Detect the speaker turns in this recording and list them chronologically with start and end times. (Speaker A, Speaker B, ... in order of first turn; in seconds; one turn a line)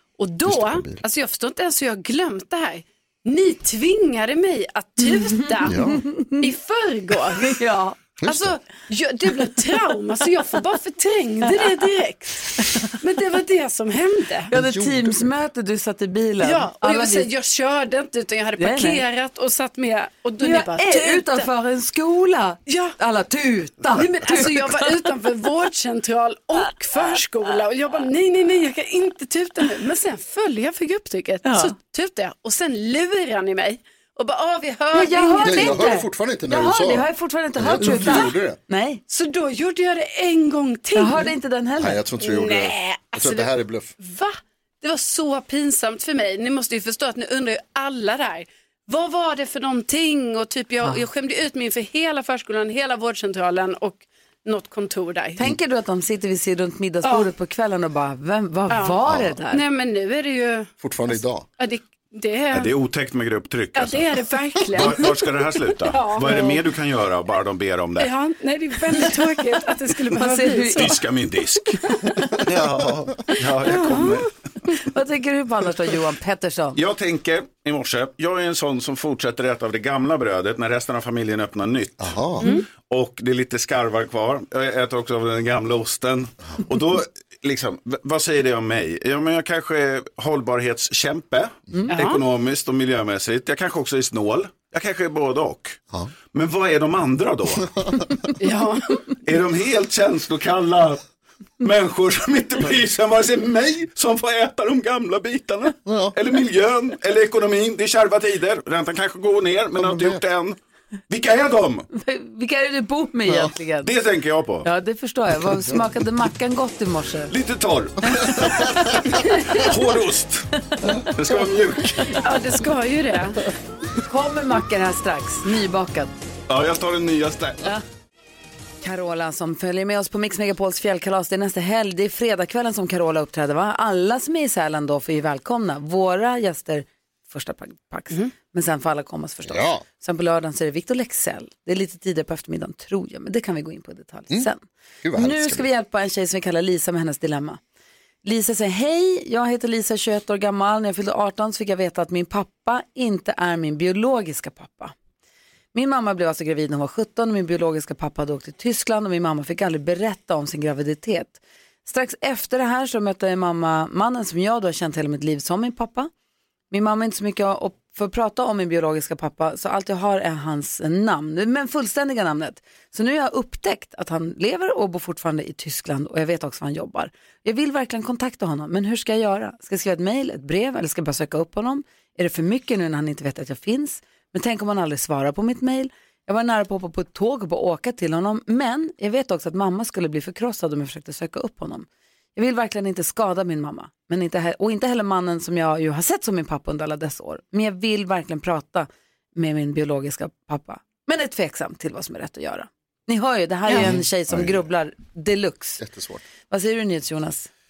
Speaker A: 0.2-5.8
Speaker B: 0.5-1.0
Speaker C: 5.0-6.5
Speaker B: 5.6-6.0
Speaker A: 6.4-7.6
Speaker C: 7.5-8.0
Speaker B: 8.2-8.6
Speaker A: 8.3-14.5
Speaker C: 12.6-13.0
Speaker C: 14.5-17.3
Speaker B: 14.5-15.3
Speaker A: 16.4-21.5
Speaker C: 18.6-19.0
Speaker C: 20.4-24.9
Speaker A: 22.7-22.9
Speaker A: 23.9-35.9
Speaker C: 31.4-31.7
Speaker C: 34.9-39.0
Speaker B: 35.4-38.6
Speaker A: 37.8-38.3
Speaker A: 39.1-41.3
Speaker C: 40.9-42.0
Speaker B: 41.8-43.9
Speaker A: 42.2-55.4
Speaker C: 55.4-59.6
Speaker A: 57.0-57.3
Speaker A: 58.7-59.0
Speaker B: 59.0-59.4
Speaker A: 59.5-60.7
Speaker B: 60.8-61.5
Speaker A: 61.6-62.7
Speaker D: 62.5-68.1
Speaker A: 63.8-66.6
Speaker A: 68.0-71.0
Speaker C: 70.1-70.9
Speaker D: 70.8-71.8
Speaker C: 71.8-72.2
Speaker D: 72.5-74.3
Speaker B: 72.5-73.0
Speaker A: 73.8-74.2
Speaker C: 74.8-76.8
Speaker D: 76.8-95.8
Speaker B: 82.0-82.5
Speaker A: 91.9-92.2
Speaker D: 96.3-98.0
Speaker A: 98.4-99.0
Speaker D: 99.2-101.0
Speaker D: 101.6-110.6
Speaker B: 105.8-106.1
Speaker B: 109.8-110.2
Speaker D: 111.1-111.9
Speaker C: 111.9-113.9
Speaker D: 113.8-114.7
Speaker C: 114.6-117.3
Speaker D: 117.3-122.3
Speaker C: 118.1-119.7
Speaker A: 122.2-123.5
Speaker C: 124.0-126.1
Speaker D: 126.5-127.8
Speaker C: 128.8-144.6
Speaker B: 139.4-139.8
Speaker B: 145.0-145.7
Speaker C: 145.2-147.6
Speaker C: 148.2-154.9
Speaker C: 155.7-166.1
Speaker C: 166.7-205.8
Speaker B: 203.8-204.6
Speaker B: 205.8-206.2
Speaker C: 206.5-207.5